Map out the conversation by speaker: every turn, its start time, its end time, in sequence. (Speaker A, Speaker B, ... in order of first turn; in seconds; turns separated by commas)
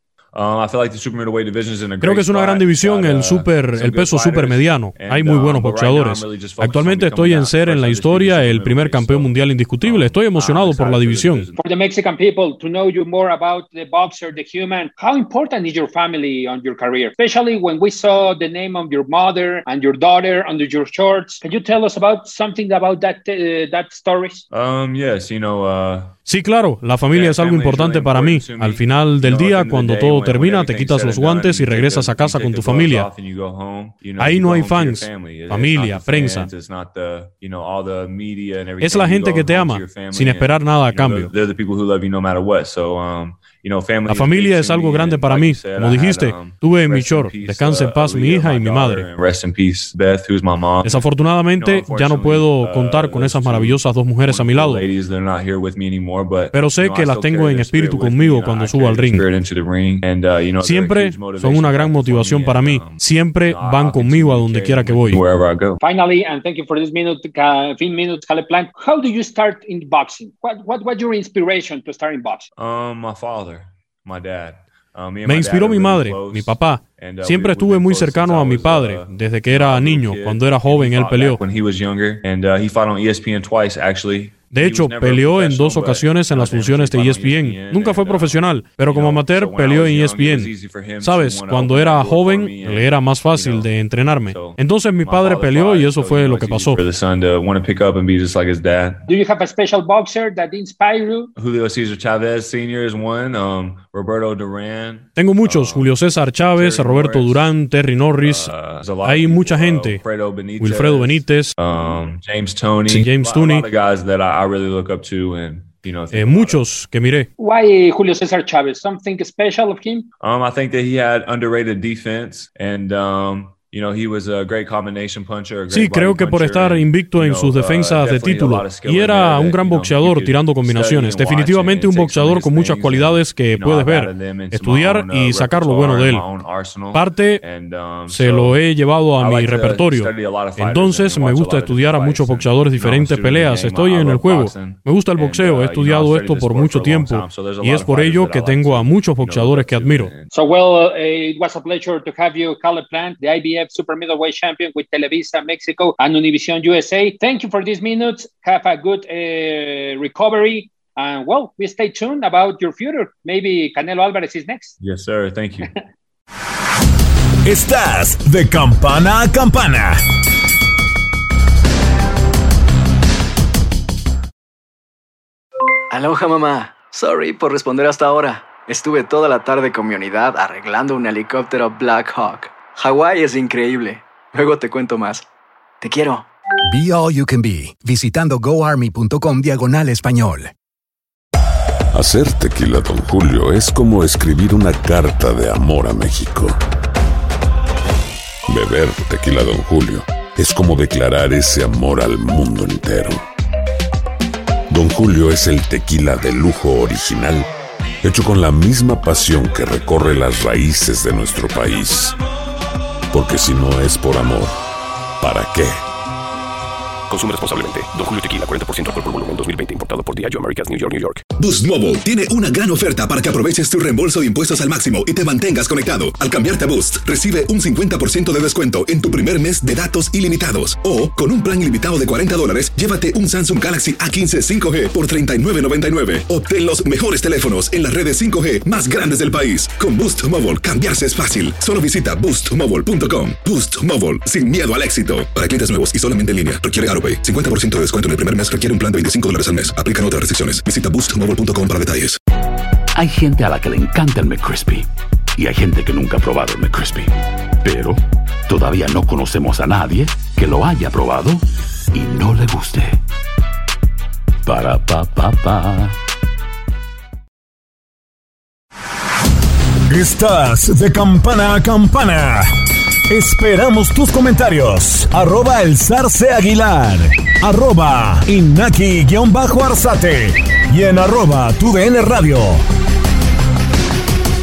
Speaker A: 0.3-11.6, Speaker B: 2.0-11.5, Speaker C: 11.6-24.4, Speaker A: 24.5-26.2, Speaker B: 26.2-33.1, Speaker A: 27.1-65.8, Speaker B: 34.2-36.5, Speaker B: 38.8-41.3, Speaker B: 44.1-49.1, Speaker B: 50.8-54.8, Speaker B: 56.5-59.2, Speaker B: 60.6-65.2, Speaker C: 65.8-72.5, Speaker A: 72.6-99.1, Speaker B: 75.2-81.4, Speaker B: 84.5-96.8, Speaker C: 99.1-101.3, Speaker A: 101.4-105.9, Speaker B: 105.2-108.5, Speaker A: 106.6-107.5, Speaker A: 108.2-116.6, Speaker B: 109.0-110.0, Speaker B: 110.6-111.5, Speaker B: 112.9-113.7, Speaker B: 116.1-117.3, Speaker C: 117.4-120.1, Speaker A: 120.2-138.6, Speaker B: 125.7-136.2, Speaker B: 136.9-137.4, Speaker B: 138.1-150.1, Speaker A: 139.2-150.3, Speaker C: 150.3-164.8, Speaker A: 164.8-165.7, Speaker D: 167.4-170.0, Speaker E: 175.9-185.2, Speaker E: 185.8-186.2, Speaker F: 186.7-190.5, Speaker G: 191.9-196.6, Speaker G: 198.5-203.2, Speaker G: 204.7-207.5, Speaker G: 208.0-212.2, Speaker G: 213.1-214.5, Speaker G: 215.2-215.8, Speaker H: 217.1-221.2, Speaker I: 221.4-252.2, Speaker J: 252.9-263.0, Speaker J: 264.5-266.0, Speaker D: 269.9-272.5, Speaker D: 273.1-282.6